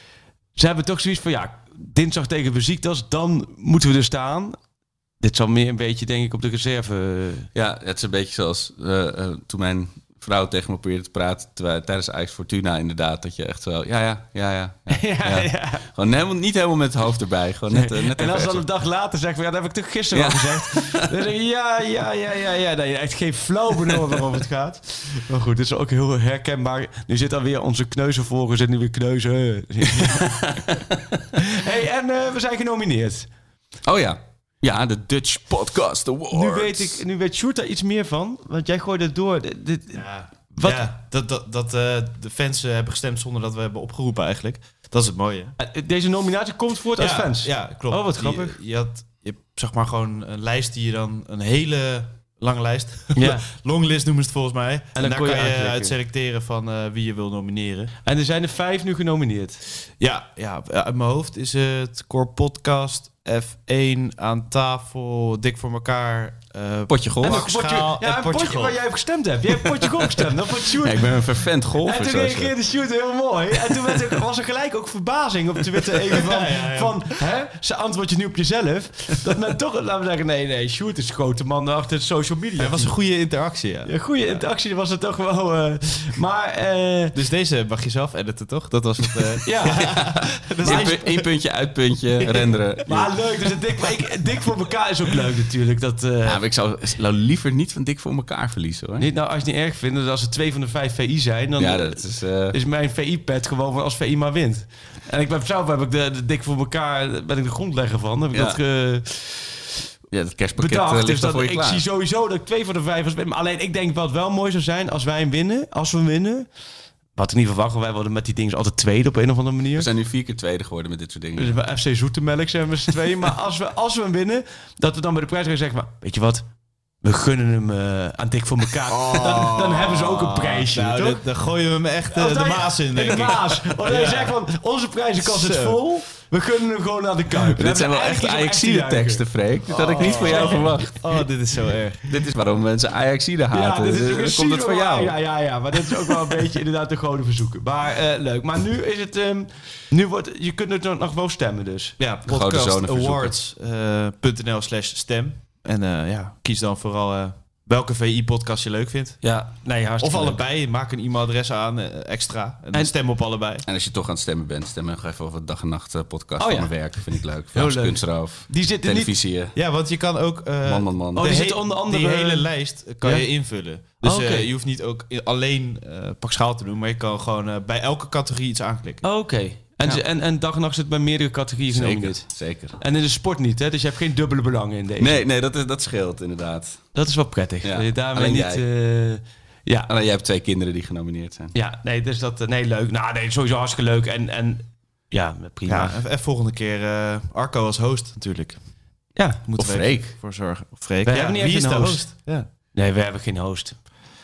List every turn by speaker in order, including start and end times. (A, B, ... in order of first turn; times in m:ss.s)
0:00.6-0:04.6 A
0:05.2-0:07.5 A
0:07.5-0:18.7 B
0:14.9-0:15.8 A
0:17.7-0:30.4 A
0:20.1-0:21.1 B
0:30.0-0:30.8 B
0:31.4-0:33.3 A
0:33.8-0:37.0 B
0:36.3-0:40.8 A
0:39.9-0:45.6 C
0:45.6-0:48.6 A
0:47.0-0:57.9 C
0:53.1-0:53.4 A
0:54.9-0:55.9 A
0:58.0-0:59.6 A
1:00.0-1:09.2 C
1:06.9-1:07.7 B
1:07.2-1:11.2 A
1:10.8-1:12.6 B
1:11.8-1:22.9 A
1:16.1-1:17.1 C
1:22.6-1:24.4 C
1:23.8-1:27.2 A
1:27.1-1:31.2 C
1:29.4-1:31.3 A
1:30.6-1:33.5 B
1:32.2-1:36.4 A
1:36.2-1:39.1 B
1:39.0-1:49.5 A
1:41.6-1:42.6 B
1:48.3-1:48.6 B
1:50.1-1:51.8 B
1:50.6-1:56.5 A
1:57.1-1:59.9 A
1:59.7-2:01.6 B
2:01.4-2:06.4 A
2:07.0-2:11.2 A
2:08.9-2:14.4 C
2:12.1-2:21.0 A
2:15.2-2:15.8 C
2:17.6-2:21.0 B
2:19.7-2:22.1 C
2:22.1-2:25.2 B
2:23.5-2:32.0 A
2:25.8-2:26.1 B
2:32.0-2:39.5 C
2:32.2-2:33.4 B
2:39.2-2:40.4 A
2:40.0-2:43.6 C
2:43.6-2:49.5 B
2:46.4-2:49.1 A
2:49.5-2:59.1 C
2:50.6-2:51.3 B
2:51.1-2:54.5 A
2:59.0-3:05.2 A
3:01.7-3:02.8 B
3:05.0-3:07.0 B
3:06.9-3:09.9 A
3:07.6-3:08.6 B
3:09.9-3:11.5 B
3:11.5-3:16.0 A
3:15.7-3:18.8 C
3:19.1-3:20.1 A
3:19.6-3:22.5 C
3:19.6-3:20.1 B
3:21.0-3:24.1 A